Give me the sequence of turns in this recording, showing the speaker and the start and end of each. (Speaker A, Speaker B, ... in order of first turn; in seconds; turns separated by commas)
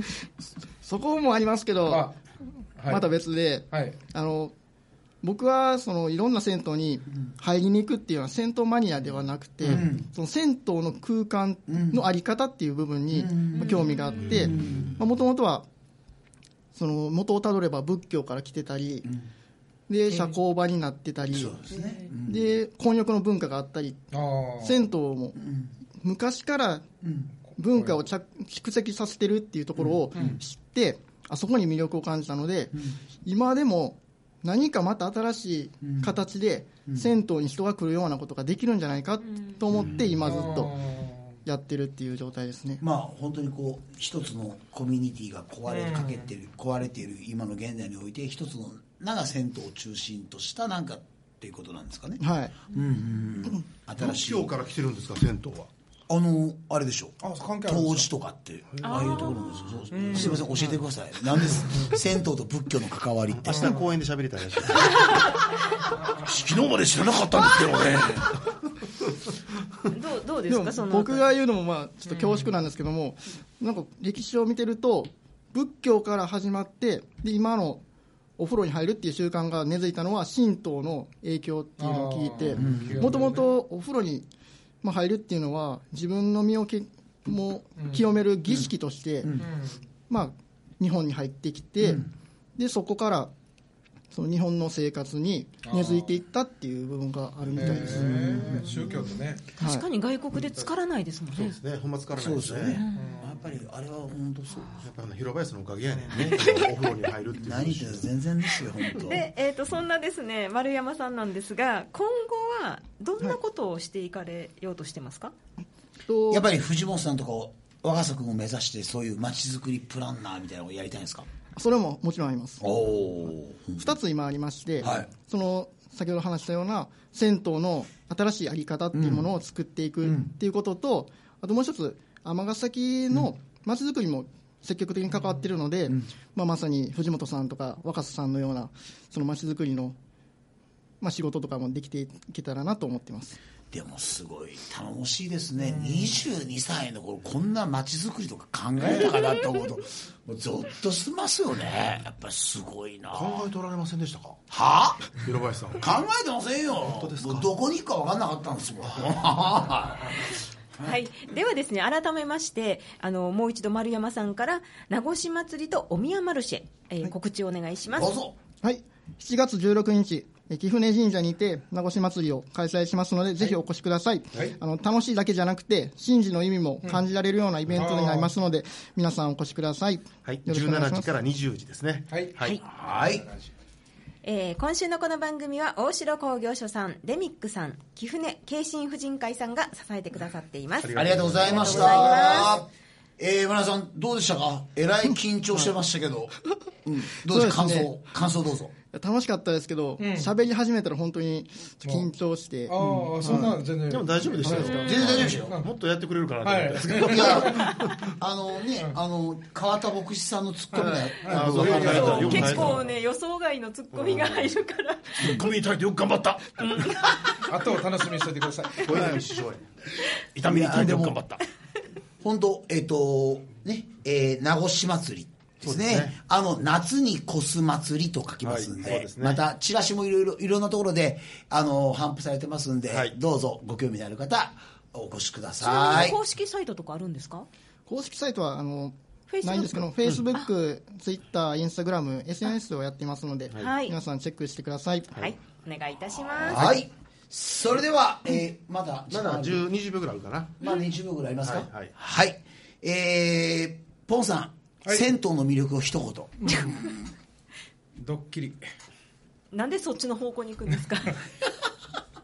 Speaker A: 0.8-2.1, Speaker B: 1.9-2.2, Speaker B: 2.8-3.1, Speaker A: 2.9-4.5, Speaker B: 3.7-4.0, Speaker A: 5.2-15.7, Speaker C: 9.6-10.1, Speaker C: 11.7-12.0, Speaker C: 13.1-15.0, Speaker D: 13.7-14.3, Speaker A: 16.7-19.1, Speaker A: 19.9-21.7, Speaker C: 21.3-22.5, Speaker A: 22.2-24.1, Speaker B: 24.1-24.8, Speaker A: 24.6-25.4, Speaker C: 25.4-25.7, Speaker A: 26.0-26.8, Speaker C: 27.0-27.3, Speaker A: 27.6-40.9, Speaker C: 29.8-30.4, Speaker C: 32.7-33.0, Speaker C: 35.8-36.1, Speaker C: 36.9-37.1, Speaker D: 39.3-39.6, Speaker C: 39.7-40.2, Speaker B: 40.2-41.4, Speaker A: 41.4-42.8, Speaker C: 42.8-54.5, Speaker B: 45.7-46.3, Speaker A: 52.2-52.5, Speaker E: 54.0-55.7, Speaker C: 56.1-63.8, Speaker B: 57.2-58.1, Speaker D: 58.8-59.4, Speaker B: 59.9-60.5, Speaker E: 63.4-65.2, Speaker B: 63.5-63.8, Speaker C: 66.2-68.4, Speaker D: 69.9-71.2, Speaker A: 70.5-77.8, Speaker B: 72.1-72.4, Speaker A: 78.4-84.3, Speaker B: 81.8-83.5, Speaker C: 82.5-83.3, Speaker A: 84.8-89.4, Speaker B: 87.8-88.0, Speaker C: 89.2-89.5, Speaker B: 89.4-89.8, Speaker A: 90.1-92.0, Speaker C: 91.8-92.1, Speaker A: 92.6-93.3, Speaker A: 94.1-98.6, Speaker B: 95.6-96.1, Speaker B: 97.6-99.5, Speaker C: 97.7-98.8, Speaker A: 99.6-99.9, Speaker D: 99.6-101.6, Speaker E: 100.3-100.7, Speaker E: 101.3-102.8, Speaker C: 102.2-104.8, Speaker D: 102.8-103.2, Speaker B: 102.9-103.5, Speaker E: 104.8-108.1, Speaker B: 105.9-106.2, Speaker D: 106.2-106.8, Speaker C: 107.3-109.3, Speaker D: 108.9-115.3, Speaker A: 116.1-116.4, Speaker C: 116.3-121.3, Speaker A: 121.5-122.7, Speaker C: 122.6-123.9, Speaker A: 123.7-139.9, Speaker C: 124.8-125.1, Speaker C: 128.9-129.3, Speaker C: 130.0-130.3, Speaker A: 141.0-143.4, Speaker C: 143.7-153.4, Speaker B: 145.7-146.3, Speaker E: 153.1-154.4, Speaker C: 154.5-155.2, Speaker E: 155.1-155.9, Speaker C: 155.8-160.9, Speaker E: 156.8-157.5, Speaker D: 160.8-168.1, Speaker C: 167.9-168.4, Speaker A: 168.6-181.1, Speaker B: 177.7-178.3, Speaker E: 180.2-182.6, Speaker B: 182.1-183.5, Speaker C: 182.6-183.3, Speaker D: 184.2-192.6, Speaker E: 190.8-192.4, Speaker C: 190.9-198.7, Speaker A: 197.2-198.0, Speaker A: 198.9-203.6, Speaker B: 200.0-200.3, Speaker B: 202.7-205.7, Speaker C: 202.8-203.4, Speaker E: 203.9-208.1, Speaker A: 204.4-205.3, Speaker C: 204.5-205.6, Speaker B: 206.4-207.8, Speaker C: 206.8-212.7, Speaker B: 210.7-212.8, Speaker E: 211.2-212.8, Speaker D: 211.7-215.5, Speaker E: 213.9-214.5, Speaker E: 215.2-216.9, Speaker D: 216.6-217.3, Speaker B: 217.4-219.0, Speaker E: 218.8-219.7, Speaker E: 220.3-221.4, Speaker C: 220.3-221.4, Speaker C: 222.2-236.2, Speaker E: 225.6-226.2, Speaker E: 228.4-229.4, Speaker E: 232.9-233.1, Speaker D: 235.6-237.5, Speaker A: 237.9-245.2, Speaker D: 239.3-240.5, Speaker D: 243.6-243.9, Speaker D: 245.2-246.6, Speaker E: 246.4-246.8, Speaker C: 246.4-249.7, Speaker E: 249.1-250.6, Speaker C: 250.6-256.7, Speaker E: 251.4-251.9, Speaker B: 254.8-255.1, Speaker B: 256.4-256.7, Speaker D: 256.5-256.7, Speaker B: 258.0-258.6, Speaker D: 259.5-261.2